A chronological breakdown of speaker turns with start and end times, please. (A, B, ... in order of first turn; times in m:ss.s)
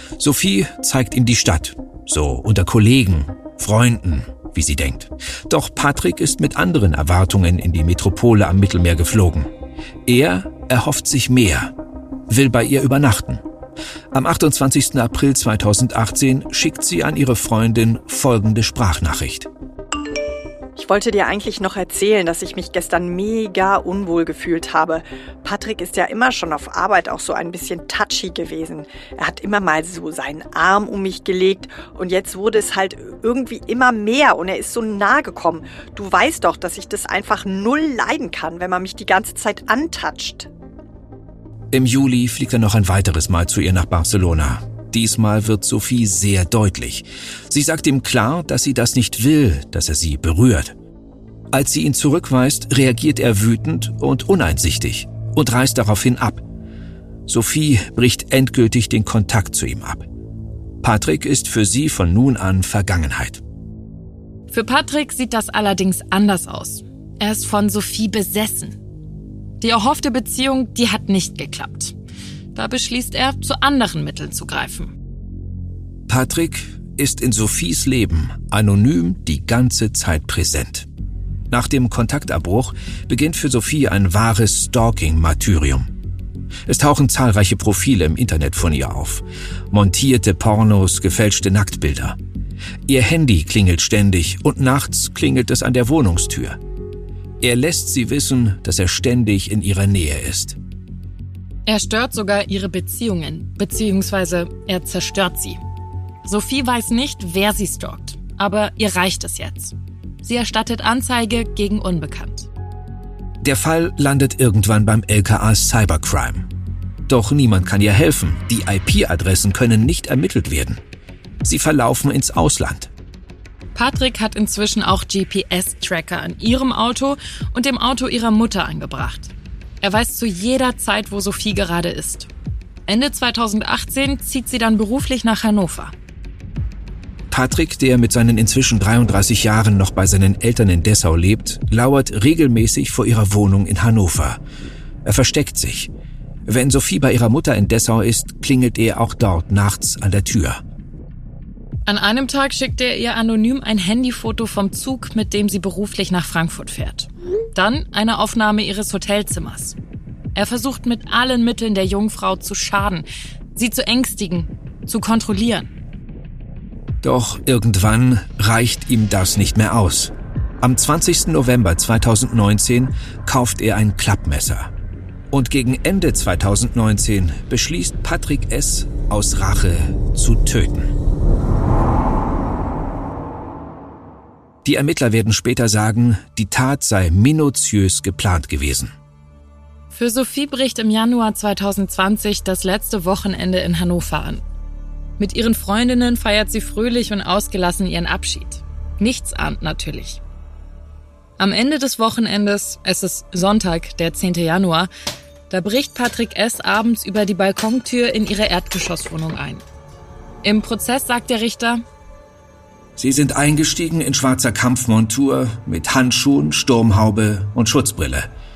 0:00.2-0:09.5 A
0:10.0-0:11.7 A
0:12.3-0:13.4 A
0:14.1-0:19.5 A
0:20.8-0:40.5 B
0:41.7-0:50.7 A
0:51.5-0:56.4 A
0:57.3-1:00.0 A
1:00.8-1:03.4 A
1:04.5-1:08.8 C
1:09.6-1:11.9 C
1:12.5-1:14.9 C
1:16.1-1:20.9 A
1:21.5-1:25.9 A
1:26.7-1:32.2 A
1:32.9-1:36.6 A
1:37.4-1:40.6 A
1:41.6-1:45.6 C
1:46.2-1:52.5 C
1:53.4-1:56.5 A
1:57.1-2:00.8 A
2:01.4-2:02.9 A
2:03.7-2:12.3 C
2:12.9-2:15.9 C
2:17.3-2:24.4 A
2:25.0-2:25.9 A
2:26.5-2:30.6 A
2:31.9-2:39.8 C
2:40.3-2:45.7 C
2:47.0-2:54.7 A
2:55.3-3:00.9 A
3:04.6-3:08.9 A
3:09.9-3:14.4 C
3:15.2-3:20.2 C
3:21.4-3:24.9 C
3:25.5-3:29.6 C
3:30.4-3:31.8 C
3:33.0-3:38.3 A